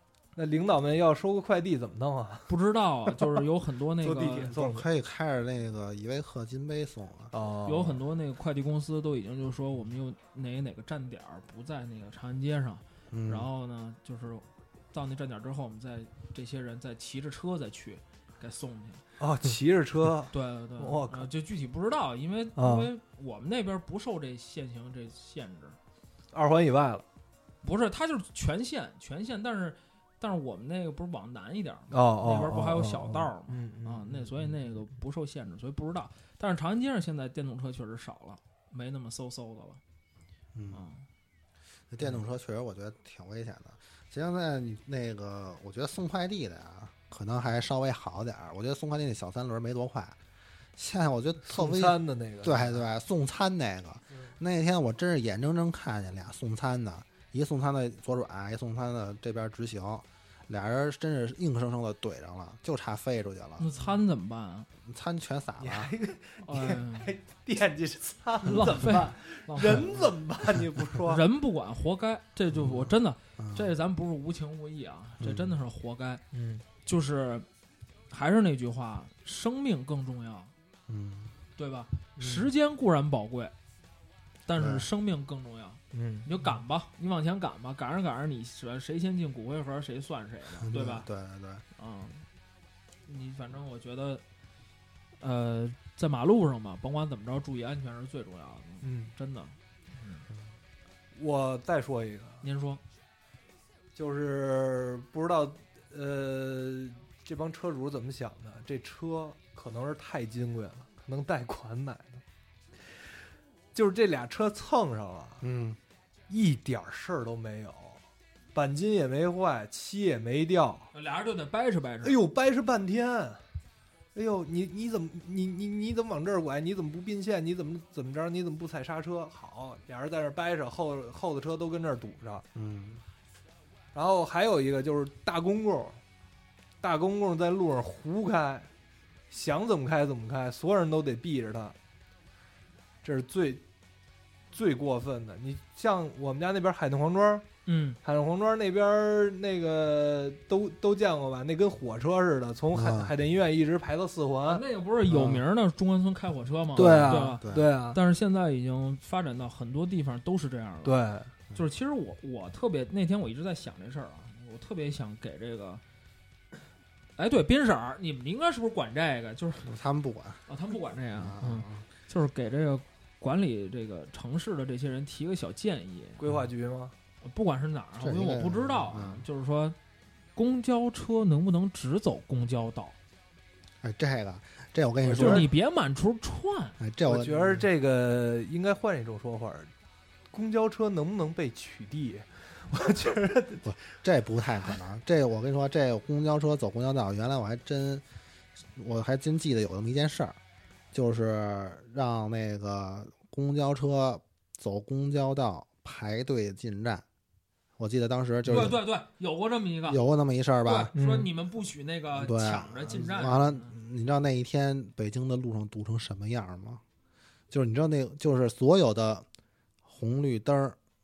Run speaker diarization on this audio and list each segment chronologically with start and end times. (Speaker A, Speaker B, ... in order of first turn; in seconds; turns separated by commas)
Speaker A: 0.4-2.5, Speaker B: 2.5-4.5, Speaker A: 4.0-4.9, Speaker C: 4.5-7.3, Speaker A: 7.3-8.0, Speaker B: 7.7-19.0, Speaker C: 13.1-13.5, Speaker A: 19.2-21.3, Speaker B: 20.3-25.8, Speaker A: 22.6-22.9, Speaker A: 26.3-27.1, Speaker B: 27.6-39.8, Speaker A: 31.9-34.3, Speaker C: 40.5-40.9, Speaker B: 40.7-41.1, Speaker C: 41.9-50.2, Speaker C: 50.8-63.7, Speaker A: 51.4-52.8, Speaker B: 63.6-64.7, Speaker C: 64.8-65.9, Speaker A: 65.6-71.2, Speaker B: 66.4-67.1, Speaker B: 68.5-70.1, Speaker B: 71.0-76.2, Speaker C: 72.5-73.7, Speaker C: 75.2-75.6, Speaker A: 76.3-76.6, Speaker B: 76.8-77.5, Speaker B: 78.1-80.5, Speaker C: 80.9-81.3, Speaker B: 81.6-83.5, Speaker A: 82.2-82.5, Speaker B: 84.5-91.1, Speaker C: 84.5-84.9, Speaker A: 85.9-86.3, Speaker C: 90.6-91.6, Speaker B: 91.8-92.3, Speaker B: 93.1-94.2, Speaker B: 95.2-100.3, Speaker A: 98.8-99.1, Speaker A: 101.1-102.4, Speaker B: 102.4-102.8, Speaker A: 104.0-112.2, Speaker A: 113.7-115.5, Speaker C: 115.4-115.8, Speaker A: 116.3-118.0, Speaker A: 118.5-120.9, Speaker B: 120.9-122.2, Speaker A: 122.0-123.4, Speaker A: 124.2-132.4, Speaker C: 132.6-133.0, Speaker A: 133.9-136.0, Speaker A: 136.8-138.7, Speaker A: 139.3-141.8, Speaker A: 143.0-143.6, Speaker A: 144.5-147.5, Speaker B: 147.7-148.0, Speaker A: 148.0-154.6, Speaker C: 152.7-153.1, Speaker B: 154.5-161.0, Speaker C: 155.1-155.4, Speaker C: 156.8-157.7, Speaker A: 156.8-158.0, Speaker A: 160.8-161.3, Speaker B: 161.5-165.8, Speaker B: 167.2-169.7, Speaker C: 169.6-170.4, Speaker B: 170.5-176.2, Speaker C: 171.2-171.9, Speaker A: 176.2-176.9, Speaker B: 177.2-179.8, Speaker C: 178.0-179.3, Speaker B: 180.3-183.0, Speaker C: 183.8-185.5, Speaker A: 185.1-185.5, Speaker B: 185.1-186.8, Speaker C: 186.8-187.7, Speaker A: 187.0-189.7, Speaker A: 190.3-193.8, Speaker C: 193.7-198.1, Speaker C: 198.8-200.4, Speaker C: 200.9-207.1, Speaker C: 207.8-208.8, Speaker B: 208.5-210.0, Speaker C: 209.9-210.9, Speaker B: 210.7-213.7, Speaker A: 210.9-211.3, Speaker C: 212.2-216.8, Speaker C: 217.5-219.3, Speaker C: 219.8-220.8